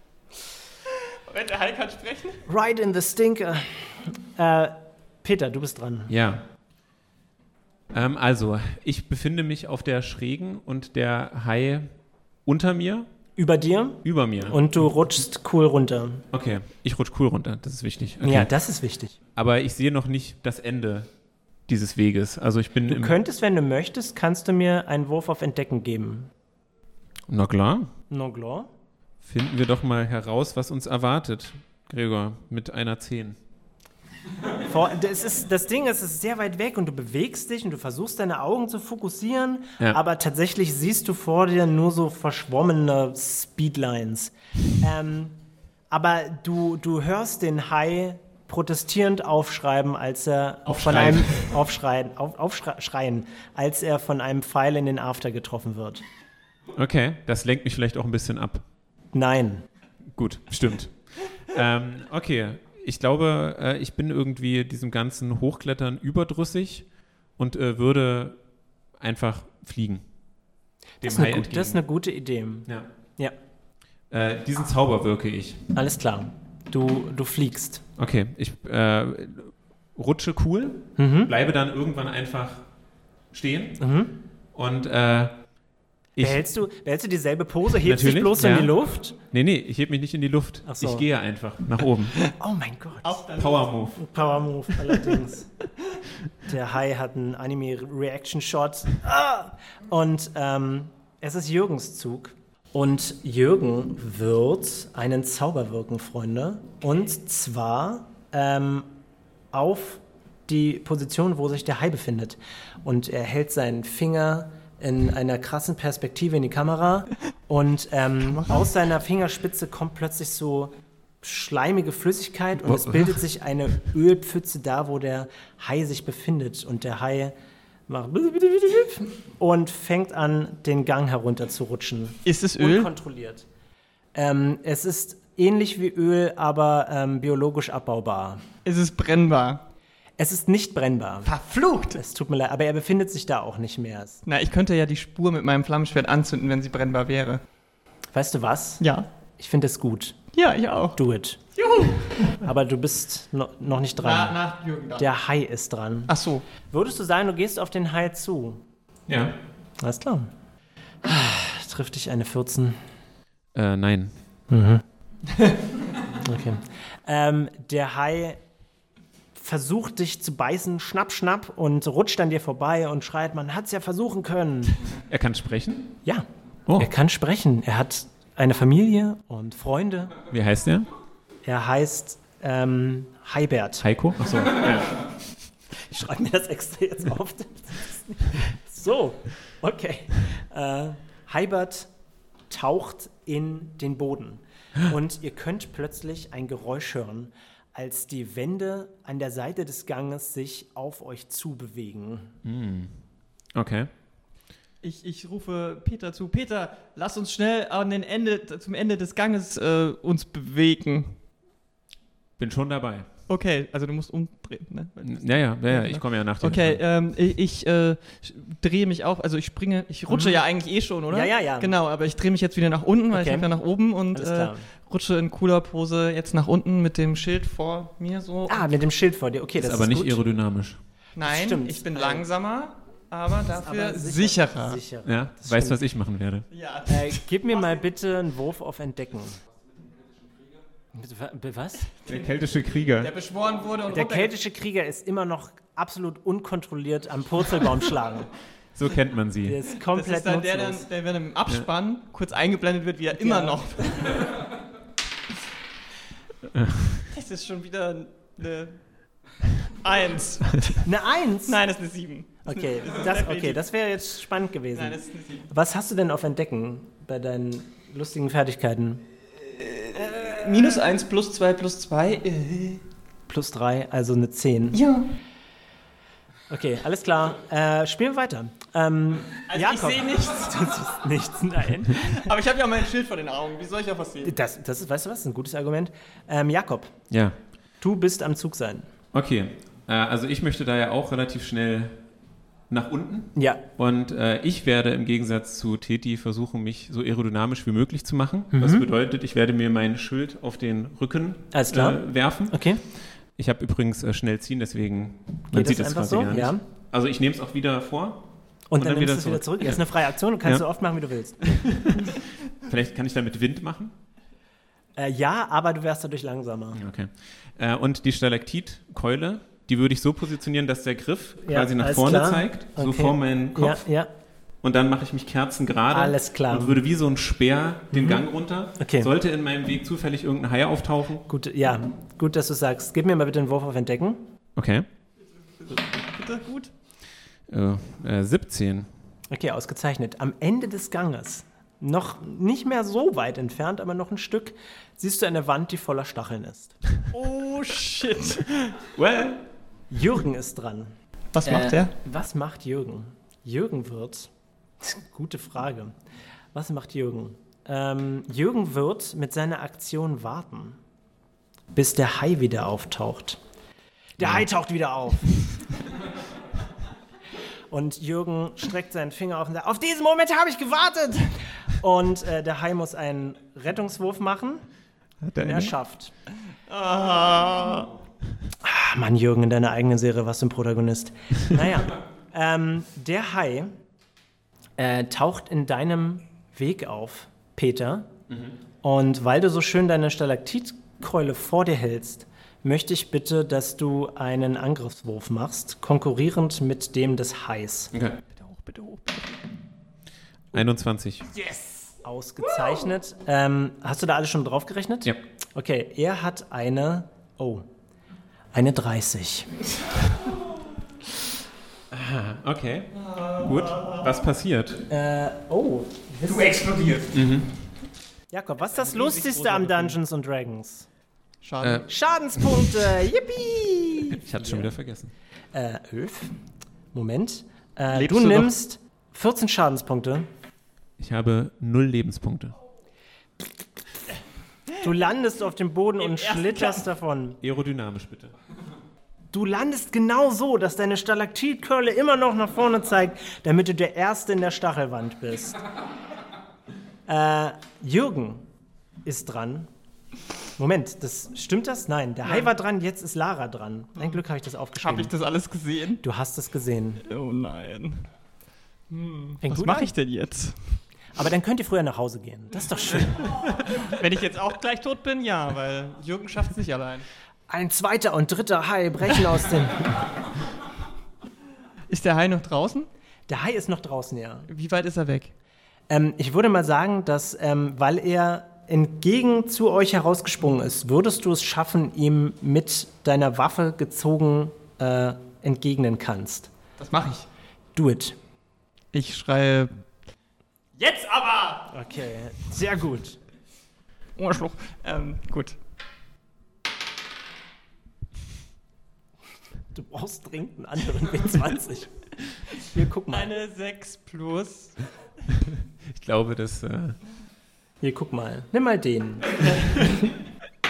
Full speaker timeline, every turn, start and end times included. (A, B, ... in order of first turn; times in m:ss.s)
0:00.9-0:02.4 A
0:02.4-0:06.1 B
0:06.1-0:06.4 C
0:07.9-0:11.9 C
0:12.4-0:13.1 C
0:13.4-0:16.2 B
0:14.0-0:14.6 C
0:16.3-0:18.5 C
0:18.2-0:19.2 B
0:19.4-0:21.1 C
0:21.7-0:23.2 C
0:22.9-0:26.3 B
0:27.3-0:27.9 C
0:28.1-0:28.7 B
0:29.2-0:33.4 C
0:34.6-0:45.3 B
0:45.9-0:56.0 B
0:50.7-0:51.4 C
0:56.7-0:58.6 C
0:59.1-0:59.6 B
1:00.1-1:08.4 C
1:09.0-1:10.1 C
1:11.0-1:11.8 C
1:11.0-1:13.3 B
1:14.1-1:15.6 C
1:15.7-1:17.8 B
1:18.0-1:22.6 C
1:21.0-1:21.3 B
1:23.3-1:23.8 C
1:23.8-1:24.1 B
1:24.5-1:25.4 C
1:26.2-1:26.4 C
1:26.2-1:29.2 B
1:27.8-1:32.2 C
1:30.6-1:31.0 B
1:32.4-1:33.2 B
1:33.0-1:33.9 A
1:33.4-1:34.0 C
1:34.0-1:35.5 B
1:36.4-1:48.9 B
1:49.5-2:07.3 B
1:58.2-1:58.7 A
2:02.6-2:03.2 C
2:07.9-2:13.4 B
2:12.2-2:12.9 A
2:14.1-2:18.4 B
2:18.6-2:19.6 A
2:20.2-2:21.3 B
2:21.2-2:22.0 A
2:21.9-2:24.2 B
2:24.2-2:27.4 A
2:28.1-2:28.8 B
2:28.8-2:29.0 A
2:29.4-2:30.2 B
2:30.3-2:31.0 A
2:31.0-2:31.4 B
2:31.6-2:32.3 A
2:32.3-2:34.4 B
2:34.0-2:35.1 A
2:35.0-2:36.1 B
2:36.1-2:36.4 A
2:36.6-2:38.6 B
2:39.1-2:39.3 C
2:39.8-2:40.3 B
2:41.0-2:42.8 B
2:43.5-2:44.2 C
2:44.5-2:44.8 B
2:46.1-2:48.4 B
2:49.3-2:54.8 B
2:55.1-2:55.9 C
2:56.0-3:00.2 B
3:00.3-3:00.9 C
3:01.4-3:03.8 B
3:03.8-3:04.9 C
3:05.8-3:11.9 B
3:12.5-3:22.3 B
3:22.4-3:23.0 C
3:23.5-3:23.9 C
3:24.8-3:31.2 A
3:32.4-3:33.1 C
3:33.3-3:48.6 A
3:35.0-3:36.8 C
3:40.1-3:40.4 B
3:41.1-3:41.7 B
3:43.1-3:43.5 B
3:44.1-3:44.6 B
3:48.5-3:50.2 B
3:49.6-3:50.8 C
3:51.2-3:54.8 A
3:51.2-3:52.2 B
3:53.5-3:55.8 B
3:55.0-3:56.5 C
3:56.5-3:57.8 A
3:56.8-3:59.4 B
4:00.9-4:01.9 B
4:02.0-4:03.1 C
4:03.0-4:04.3 A
4:03.9-4:08.3 B
4:08.7-4:09.6 C
4:09.4-4:10.8 B
4:09.9-4:14.4 A
4:13.2-4:13.6 B
4:16.5-4:17.0 C
4:17.1-4:19.2 A
4:19.8-4:20.9 A
4:20.8-4:21.6 B
4:21.4-4:23.6 A
4:22.4-4:29.0 B
4:24.7-4:25.5 A
4:29.5-4:32.8 A
4:33.3-4:34.8 B
4:34.7-4:35.1 A
4:36.5-4:42.2 B
4:39.5-4:40.8 A
4:41.9-4:44.3 A
4:44.2-4:47.0 B
4:47.1-4:47.4 C
4:47.8-4:48.9 B
4:49.1-4:52.0 C
4:52.7-5:09.8 C
4:53.4-4:53.6 B
4:58.5-4:58.8 B
5:01.5-5:02.8 B
5:05.5-5:06.6 B
5:08.7-5:11.7 B
5:11.4-5:13.9 C
5:15.0-5:16.8 B
5:16.7-5:23.8 C
5:21.4-5:24.1 B
5:24.6-5:31.2 C
5:25.9-5:26.8 B
5:27.9-5:28.2 B
5:28.8-5:29.1 B
5:31.3-5:34.2 B
5:34.6-5:34.9 C
5:35.6-5:36.7 A
5:37.5-5:38.9 C
5:39.3-5:46.8 B
5:47.1-5:48.7 A
5:48.8-5:49.4 C
5:49.9-5:50.9 B
5:51.3-5:51.9 A
5:51.4-5:55.9 B
5:56.5-6:00.8 B
6:01.7-6:03.4 B
6:04.2-6:05.4 B
6:07.7-6:14.6 B
6:15.2-6:15.7 C
6:15.4-6:16.1 B
6:16.7-6:17.9 A
6:18.6-6:23.7 B
6:24.8-6:28.1 B
6:28.8-6:37.9 B
6:37.9-6:38.2 C
6:38.3-6:39.4 A
6:40.5-6:41.3 C
6:41.4-6:47.7 B
6:48.5-6:49.5 B
6:51.9-6:54.8 C
6:52.9-6:54.2 A
6:54.9-6:56.6 B
6:56.2-6:57.1 A
6:57.1-6:57.5 C
6:58.3-7:00.9 B
6:58.8-7:00.0 A
7:01.4-7:01.9 A
7:01.6-7:01.8 C
7:01.9-7:04.7 B
7:02.4-7:02.7 C
7:04.1-7:05.1 C
7:05.5-7:06.4 B
7:06.9-7:10.3 B
7:08.0-7:08.5 C
7:11.0-7:12.6 C
7:14.8-7:17.4 B
7:16.0-7:16.9 A
7:17.4-7:18.3 C
7:19.3-7:25.6 B
7:27.1-7:28.4 B
7:29.0-7:29.7 B
7:30.6-7:35.1 B
7:34.8-7:36.0 A
7:36.0-7:37.0 B
7:37.0-7:38.0 A
7:38.9-7:40.8 A
7:39.4-7:39.9 B
7:41.1-7:43.4 B
7:43.6-7:47.0 A
7:47.5-7:50.0 B
7:51.9-7:52.9 A
7:53.3-7:54.5 B
7:54.5-7:55.3 A
7:55.9-8:06.5 B
8:06.8-8:07.2 A
8:07.8-8:08.2 B
8:08.9-8:09.7 A
8:10.8-8:11.7 A
8:11.7-8:13.2 B
8:14.2-8:15.6 A
8:19.7-8:22.0 B
8:22.5-8:23.3 B
8:23.1-8:24.8 A
8:25.9-8:27.0 C
8:27.8-8:30.0 B